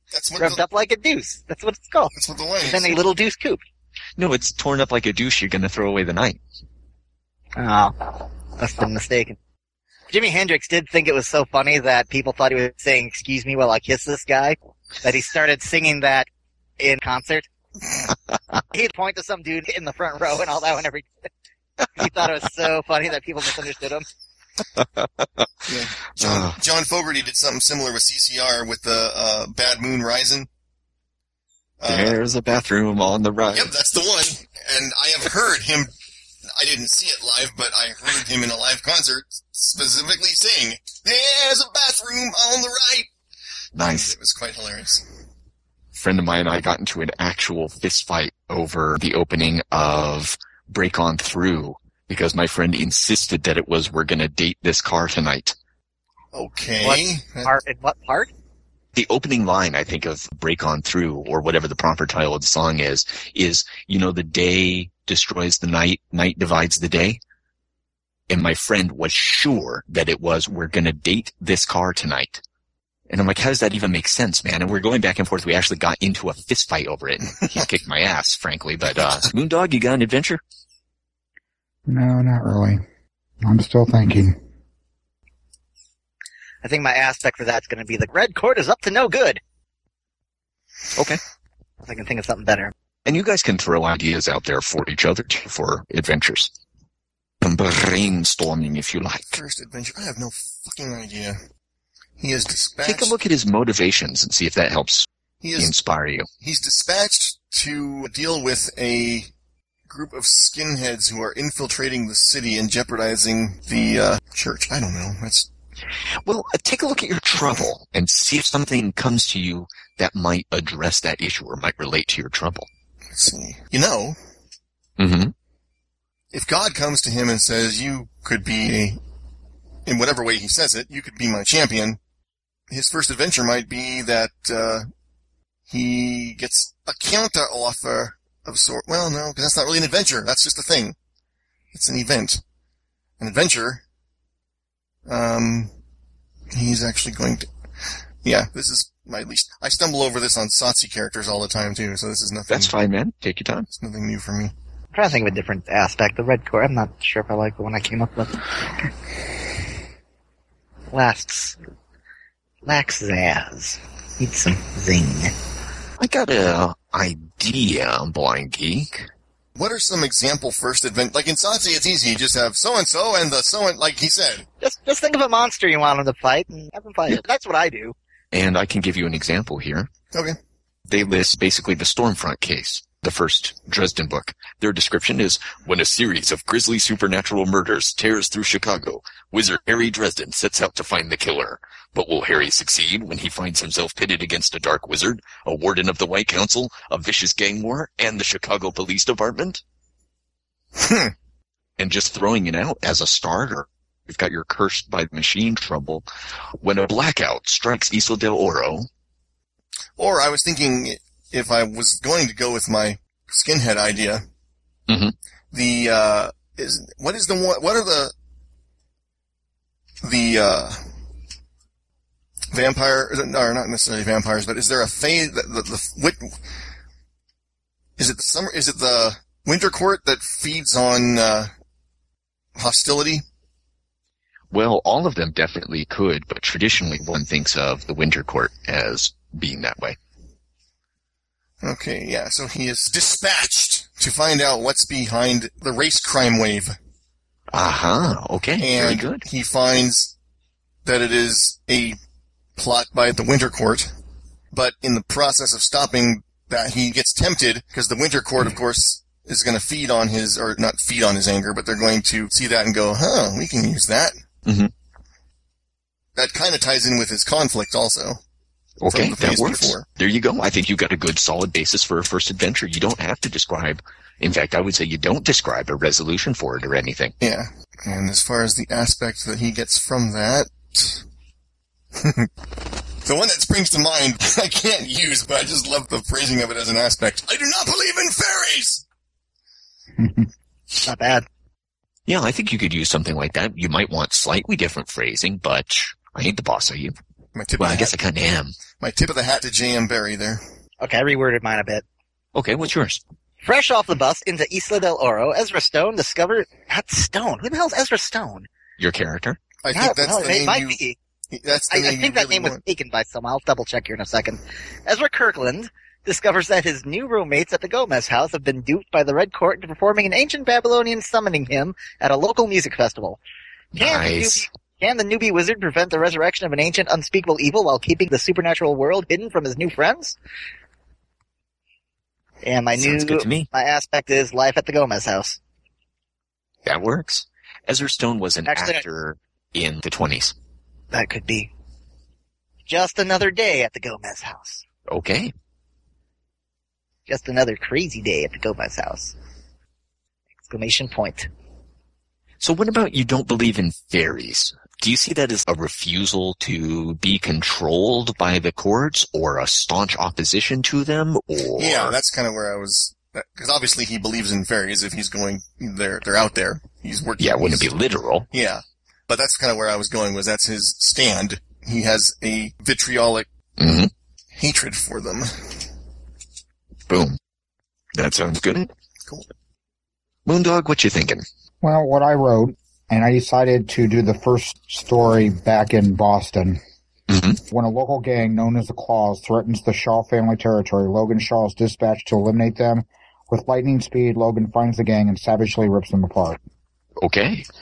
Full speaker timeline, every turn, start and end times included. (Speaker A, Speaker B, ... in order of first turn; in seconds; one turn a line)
Speaker A: 0.1-0.6
Speaker B: 0.4-2.1
Speaker A: 2.1-2.9
Speaker B: 2.6-3.6
Speaker C: 4.2-6.4
Speaker B: 7.6-9.4
Speaker B: 10.1-16.3
Speaker B: 16.8-17.5
Speaker B: 18.7-21.1
Speaker B: 21.9-24.1
Speaker C: 24.8-26.6
Speaker A: 25.7-30.5
Speaker A: 31.8-32.2
Speaker C: 31.9-33.7
Speaker A: 33.5-35.9
Speaker A: 36.5-43.1
Speaker C: 43.8-44.1
Speaker A: 43.8-45.0
Speaker C: 46.0-55.6
Speaker A: 56.3-57.5
Speaker B: 56.8-58.3
Speaker C: 59.0-67.2
Speaker C: 68.3-72.4
Speaker C: 73.1-80.4
Speaker D: 81.9-82.8
Speaker D: 83.4-84.4
Speaker B: 86.6-89.4
Speaker B: 91.8-92.7
Speaker C: 93.0-96.5
Speaker C: 97.4-99.4
Speaker A: 99.3-101.4
Speaker A: 102.2-103.2
Speaker C: 102.8-106.3
Speaker A: 105.4-105.7
Speaker A: 106.4-109.3
Speaker A: 109.9-115.5
Speaker C: 116.2-122.7
Speaker A: 123.1-124.2
Speaker C: 125.0-125.3
Speaker A: 126.3-129.0
Speaker A: 129.9-132.0
Speaker A: 132.7-134.9
Speaker A: 135.7-141.0
Speaker A: 141.7-142.4
Speaker A: 143.2-143.8
Speaker A: 145.1-145.7
Speaker A: 146.5-147.5
Speaker A: 148.2-152.8
Speaker C: 152.5-153.7
Speaker A: 153.7-154.5
Speaker B: 154.9-158.4
Speaker B: 160.9-161.6
Speaker B: 162.7-165.3
Speaker C: 166.0-169.1
Speaker A: 169.6-174.5
Speaker B: 174.6-177.9
Speaker C: 178.3-179.9
Speaker C: 180.9-199.6
Speaker A: 200.8-201.1
Speaker C: 201.8-206.1
Speaker C: 206.6-208.9
Speaker A: 210.0-214.2
Speaker C: 214.9-215.1
Speaker A: 215.5-218.1
Speaker A: 220.0-220.8
Speaker A: 222.5-226.3
Speaker A: 228.0-231.5
Speaker A: 232.6-233.2
Speaker C: 234.5-240.0
Speaker A: 241.6-246.8
Speaker C: 247.5-249.2
Speaker A: 248.6-250.2
Speaker A: 250.8-252.0
Speaker A: 252.6-253.9
Speaker A: 254.5-264.2
Speaker C: 264.5-264.7
Speaker A: 266.2-268.2
Speaker C: 268.8-277.1
Speaker A: 268.9-269.8
Speaker A: 277.2-281.0
Speaker A: 281.9-282.3
Speaker A: 283.0-288.8
Speaker D: 290.0-290.3
Speaker B: 290.8-291.3
Speaker C: 292.1-296.9
Speaker A: 297.4-297.9
Speaker C: 297.6-298.6
Speaker A: 298.8-300.4
Speaker B: 300.8-301.8
Speaker C: 302.4-303.0
Speaker B: 303.4-308.5
Speaker C: 308.8-309.4
Speaker A: 309.6-310.8
Speaker B: 309.7-311.0
Speaker A: 311.3-312.6
Speaker B: 311.7-323.2
Speaker C: 323.7-324.5
Speaker B: 323.8-330.2
Speaker B: 332.4-335.4
Speaker C: 332.8-333.5
Speaker C: 336.6-340.3
Speaker B: 338.5-338.8
Speaker B: 340.9-341.5
Speaker B: 342.7-344.6
Speaker C: 344.9-345.3
Speaker B: 347.1-349.1
Speaker B: 350.4-351.3
Speaker C: 352.4-361.9
Speaker A: 361.6-367.7
Speaker C: 367.2-368.3
Speaker A: 368.3-373.3
Speaker C: 373.6-373.9
Speaker A: 374.4-375.5
Speaker C: 376.9-377.2
Speaker C: 377.9-378.7
Speaker C: 380.3-381.2
Speaker D: 381.6-386.6
Speaker C: 387.1-387.4
Speaker D: 387.5-396.4
Speaker C: 397.0-397.5